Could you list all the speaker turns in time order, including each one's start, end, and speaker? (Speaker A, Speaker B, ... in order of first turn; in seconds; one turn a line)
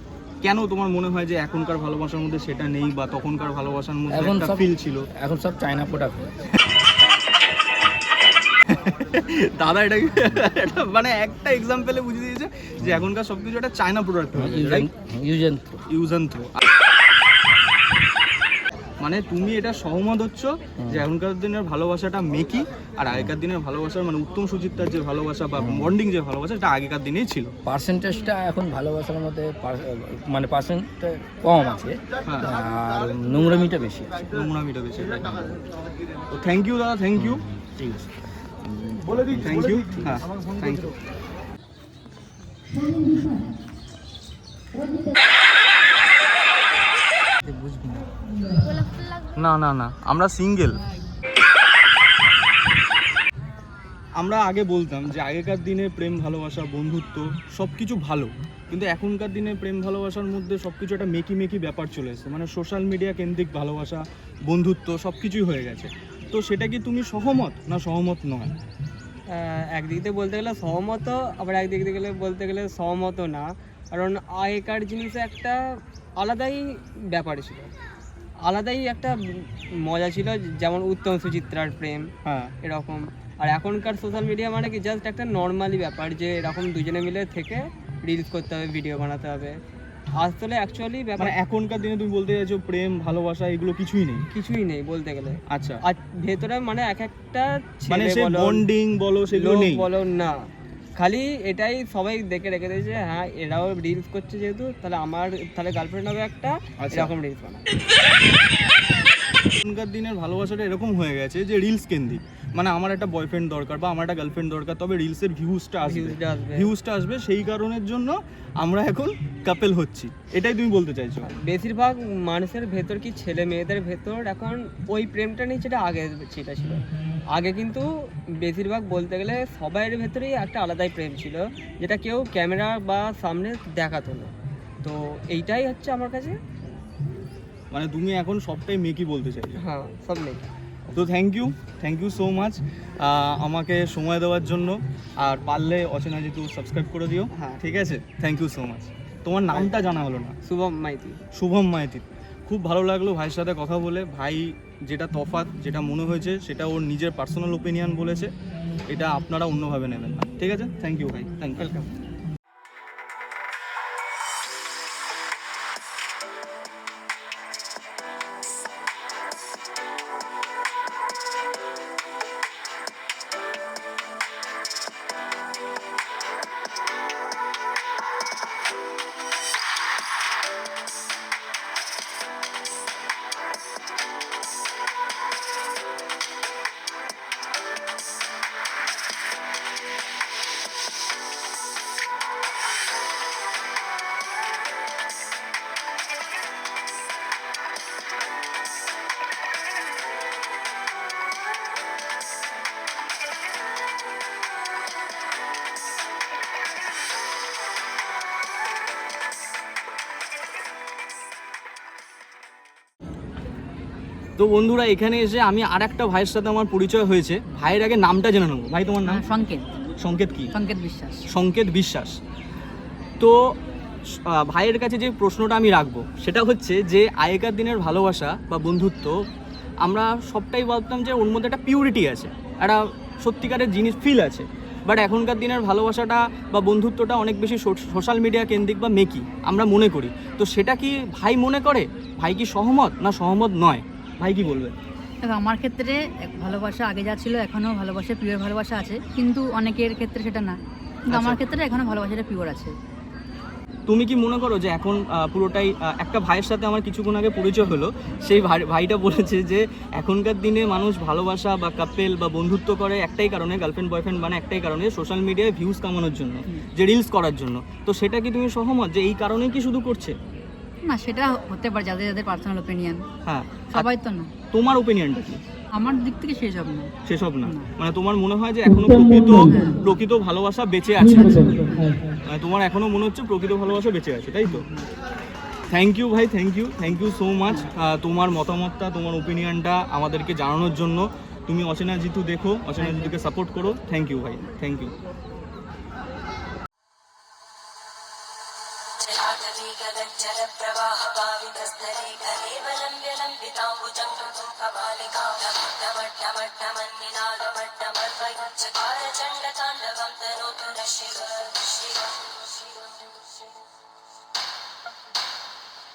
Speaker A: 0.4-5.1
Speaker B: 4.1-6.3
Speaker A: 8.7-14.9
Speaker B: 12.8-13.1
Speaker B: 14.3-15.8
Speaker A: 15.9-16.5
Speaker A: 19.0-27.5
Speaker B: 25.6-25.9
Speaker B: 27.6-34.2
Speaker A: 34.3-35.4
Speaker A: 36.3-37.4
Speaker B: 37.2-38.1
Speaker B: 38.6-40.2
Speaker A: 39.4-40.9
Speaker A: 47.5-48.0
Speaker A: 49.3-50.8
Speaker A: 54.2-68.5
Speaker C: 69.7-73.4
Speaker C: 73.9-75.5
Speaker C: 76.2-76.5
Speaker C: 77.1-77.7
Speaker C: 78.5-79.1
Speaker C: 79.9-82.0
Speaker A: 82.2-82.5
Speaker C: 82.7-89.5
Speaker C: 90.2-91.1
Speaker A: 91.2-94.3
Speaker C: 94.3-95.3
Speaker A: 95.5-95.8
Speaker C: 96.3-97.4
Speaker A: 97.9-99.9
Speaker C: 98.0-98.5
Speaker C: 101.0-106.5
Speaker A: 106.8-107.1
Speaker C: 107.3-107.6
Speaker A: 109.6-121.3
Speaker C: 121.5-126.8
Speaker C: 127.4-127.8
Speaker C: 128.5-134.3
Speaker C: 134.8-136.3
Speaker A: 137.7-139.6
Speaker C: 139.8-140.4
Speaker A: 140.9-150.3
Speaker C: 150.5-151.1
Speaker A: 151.3-158.3
Speaker A: 158.9-161.7
Speaker A: 214.4-219.2
Speaker D: 219.0-219.7
Speaker A: 220.0-220.5
Speaker D: 220.5-221.2
Speaker A: 221.3-222.2
Speaker A: 224.2-229.2
Speaker A: 229.8-244.8
Speaker D: 245.2-250.6
Speaker A: 251.1-251.4
Speaker D: 251.1-252.7
Speaker A: 253.9-270.1
Speaker D: 270.9-273.0
Speaker A: 273.2-273.9
Speaker D: 273.8-274.3
Speaker A: 274.5-275.4
Speaker D: 275.8-276.9
Speaker A: 277.1-281.7
Speaker D: 279.4-279.8
Speaker D: 281.2-281.9
Speaker A: 282.2-284.7
Speaker D: 284.5-284.8
Speaker A: 285.7-294.9
Speaker E: 299.1-313.2